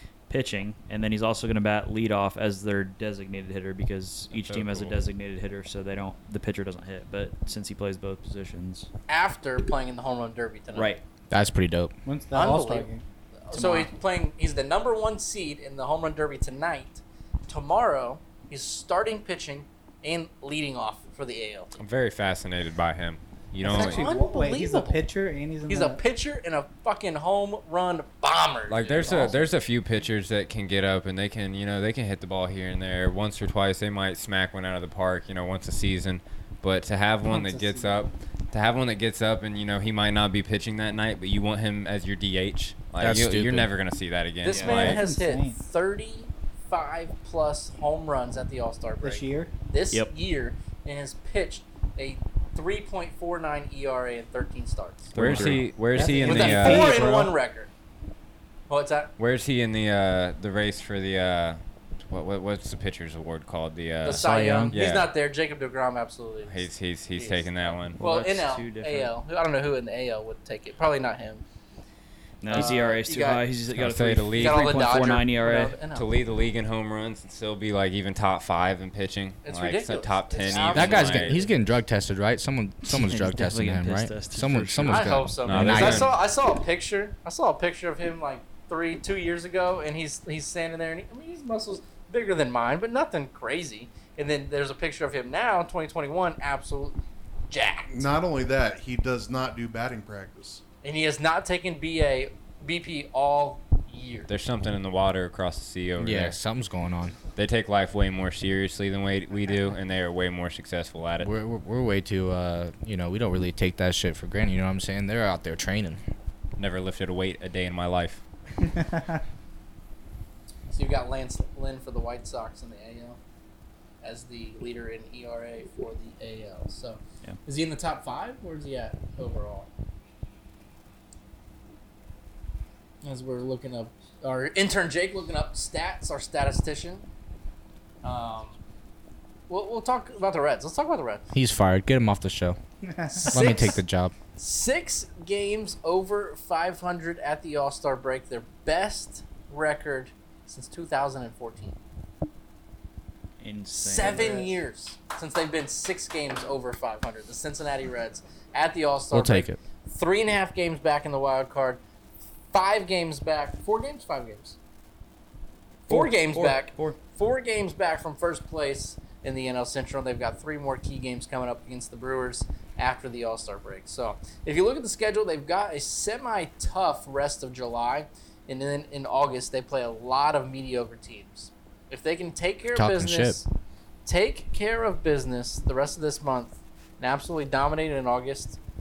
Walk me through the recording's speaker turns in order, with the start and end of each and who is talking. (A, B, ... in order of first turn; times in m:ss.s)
0:00.3-0:08.9 A
0:04.3-0:05.0 B
0:09.1-0:10.9 C
0:10.7-0:11.0 A
0:11.3-0:11.9 D
0:12.0-0:13.9 E
0:12.3-0:12.9 C
0:13.5-0:21.8 C
0:21.8-0:24.1 B
0:23.6-0:26.0 E
0:23.6-0:25.0 C
0:25.7-0:29.4 C
0:28.7-0:45.0 B
0:29.0-0:29.4 E
0:37.3-0:37.8 E
0:43.0-0:43.7 D
0:44.4-0:55.6 C
0:44.5-0:45.6 E
0:49.0-0:49.5 E
0:55.1-0:55.8 A
0:55.1-0:57.0 B
0:55.9-0:57.3 E
0:56.2-0:57.7 C
0:58.7-0:59.1 C
0:59.2-1:05.1 B
1:04.0-1:11.4 C
1:04.1-1:04.8 A
1:06.4-1:08.0 B
1:07.9-1:09.1 A
1:12.4-1:15.8 A
1:12.5-1:13.4 C
1:13.7-1:14.8 B
1:14.4-1:16.0 C
1:15.9-1:21.4 B
1:19.4-1:21.5 C
1:20.6-1:26.1 D
1:22.9-1:25.3 A
1:24.9-1:38.1 C
1:25.4-1:26.1 B
1:37.9-1:40.6 F
1:40.8-1:44.3 C
1:44.3-1:46.4 B
1:46.0-1:47.1 D
1:47.3-1:51.3 B
1:51.2-1:56.0 D
1:56.6-1:58.2 B
1:58.7-1:59.2 E
2:00.7-2:03.2 C
2:04.0-2:09.7 C
2:13.0-2:17.1 C
2:18.0-2:18.6 C
2:19.5-2:21.2 C
2:21.3-2:22.6 D
2:22.8-2:23.6 E
2:23.2-2:23.8 C
2:23.2-2:24.1 D
2:24.4-2:31.8 C
2:33.4-2:34.5 A
2:33.7-2:41.8 C
2:39.1-2:39.6 D
2:42.5-2:44.6 C
2:45.9-2:47.0 A
2:45.9-3:03.5 C
3:02.7-3:03.4 D
3:04.0-3:08.6 C